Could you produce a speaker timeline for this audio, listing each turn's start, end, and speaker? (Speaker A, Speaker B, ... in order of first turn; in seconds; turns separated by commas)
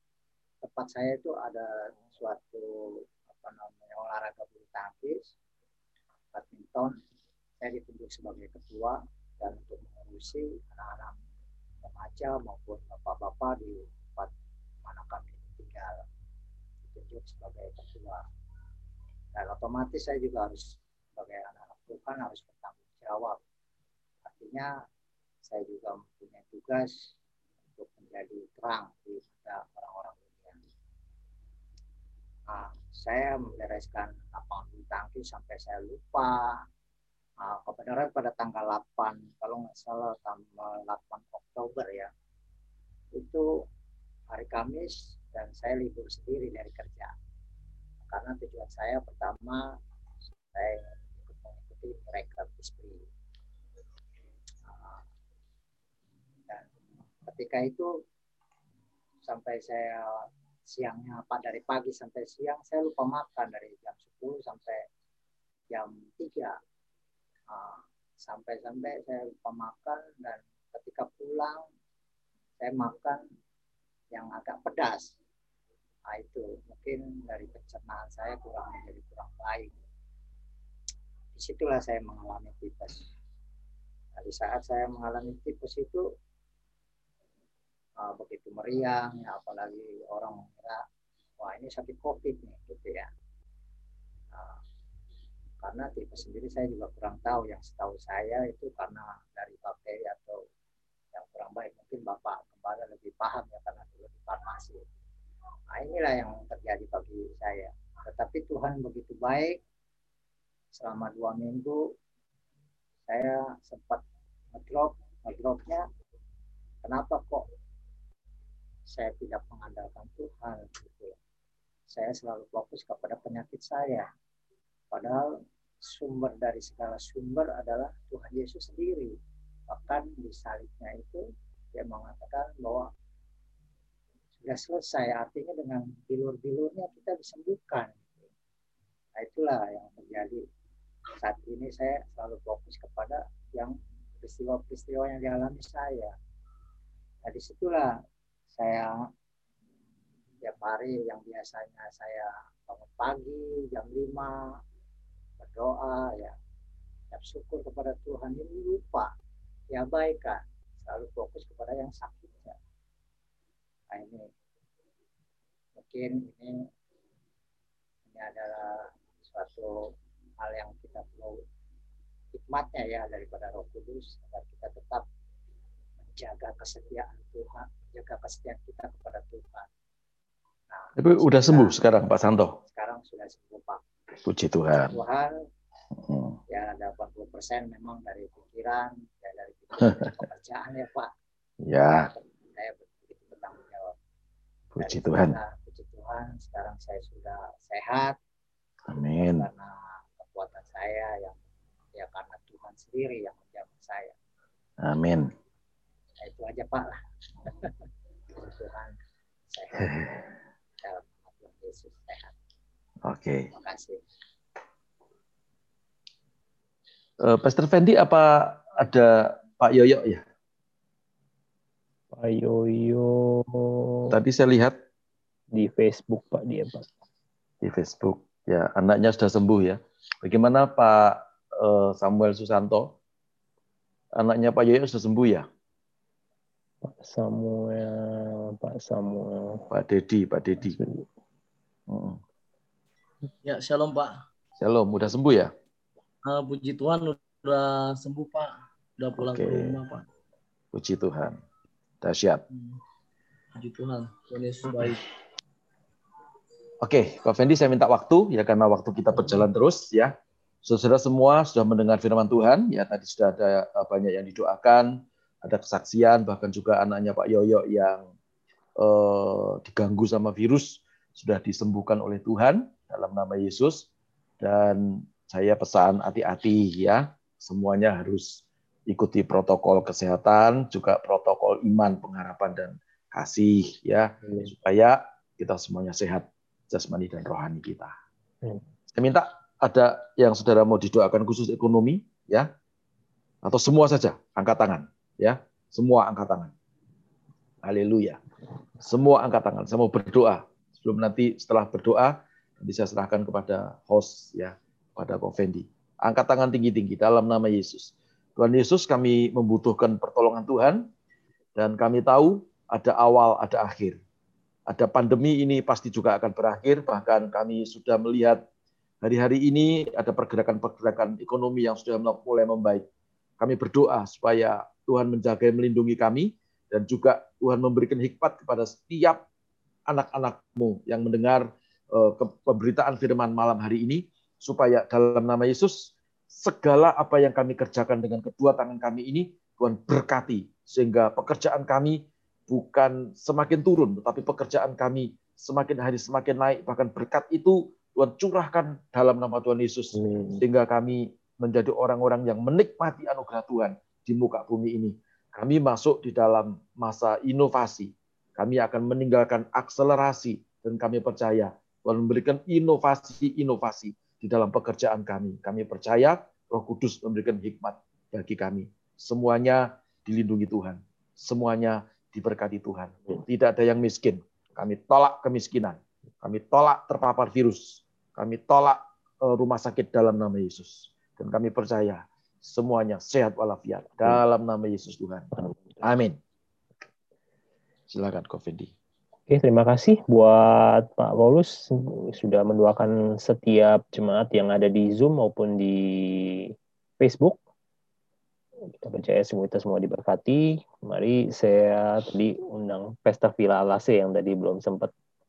Speaker A: 0.6-5.3, Speaker A: 6.3-7.0, Speaker A: 7.6-11.2, Speaker A: 11.8-14.3, Speaker A: 14.8-16.0, Speaker A: 16.9-18.2, Speaker A: 19.3-23.4, Speaker A: 24.2-24.7, Speaker A: 25.4-27.1, Speaker A: 27.8-30.6, Speaker A: 32.5-36.6, Speaker A: 37.4-42.1, Speaker A: 43.1-43.5, Speaker A: 44.3-47.1, Speaker A: 48.1-49.8, Speaker A: 50.5-53.0, Speaker A: 54.6-55.0, Speaker A: 57.2-57.9, Speaker A: 59.2-64.8, Speaker A: 65.7-66.6, Speaker A: 67.5-71.6, Speaker A: 72.6-73.2, Speaker A: 74.1-75.1, Speaker A: 76.1-79.8, Speaker A: 81.3-83.0, Speaker A: 84.2-86.0, Speaker A: 88.0-90.8, Speaker A: 91.4-93.1, Speaker A: 94.3-94.6, Speaker A: 95.6-100.4, Speaker A: 101.1-104.8, Speaker A: 105.7-109.6, Speaker A: 110.7-111.8, Speaker A: 113.1-114.0, Speaker A: 114.5-115.8, Speaker A: 116.8-117.5, Speaker A: 118.9-121.2, Speaker A: 121.9-124.1, Speaker A: 124.9-129.1, Speaker A: 129.7-132.9, Speaker A: 134.4-138.3, Speaker A: 139.2-140.4, Speaker A: 141.2-146.1, Speaker A: 147.2-149.0, Speaker A: 150.4-154.6, Speaker A: 155.4-156.3, Speaker A: 157.1-159.1, Speaker A: 159.7-162.6, Speaker A: 163.9-164.2, Speaker A: 165.8-166.5, Speaker A: 168.1-171.4, Speaker A: 172.3-175.0, Speaker A: 176.0-179.7, Speaker A: 180.7-181.8, Speaker B: 181.0-182.6, Speaker A: 182.6-183.8, Speaker B: 184.2-185.0, Speaker A: 184.7-185.3, Speaker B: 186.1-186.4, Speaker A: 186.5-191.1, Speaker B: 189.8-190.1, Speaker B: 191.6-192.1, Speaker A: 192.1-193.9, Speaker B: 194.8-195.4, Speaker A: 194.8-198.1, Speaker B: 198.9-199.5, Speaker A: 199.2-201.4, Speaker A: 201.9-204.2, Speaker B: 204.8-205.3, Speaker A: 206.2-207.7, Speaker A: 208.3-209.0, Speaker A: 209.5-210.0, Speaker B: 209.8-210.1, Speaker A: 210.8-212.3, Speaker B: 213.0-213.5, Speaker A: 213.5-214.0, Speaker B: 217.2-220.2, Speaker C: 222.1-224.1, Speaker B: 224.1-224.8, Speaker C: 225.5-226.9, Speaker B: 227.6-232.9, Speaker B: 234.2-235.5, Speaker C: 236.8-239.7, Speaker B: 239.7-240.8, Speaker C: 240.6-241.0, Speaker B: 241.9-242.2, Speaker D: 243.4-244.2, Speaker B: 244.6-245.5, Speaker D: 246.2-250.0, Speaker B: 249.2-249.8, Speaker B: 250.7-251.4, Speaker B: 252.0-252.4, Speaker D: 252.5-252.8, Speaker D: 253.6-255.0, Speaker B: 256.8-268.1, Speaker B: 268.8-273.9, Speaker B: 274.4-287.9, Speaker B: 288.9-292.5, Speaker B: 293.4-296.5, Speaker B: 297.6-298.2, Speaker B: 298.8-310.9, Speaker B: 311.6-314.0, Speaker B: 314.7-318.4, Speaker B: 319.0-322.9, Speaker B: 323.4-329.2, Speaker B: 329.9-386.2, Speaker C: 349.9-350.4, Speaker B: 387.9-388.7, Speaker C: 389.3-397.4, Speaker C: 398.7-404.9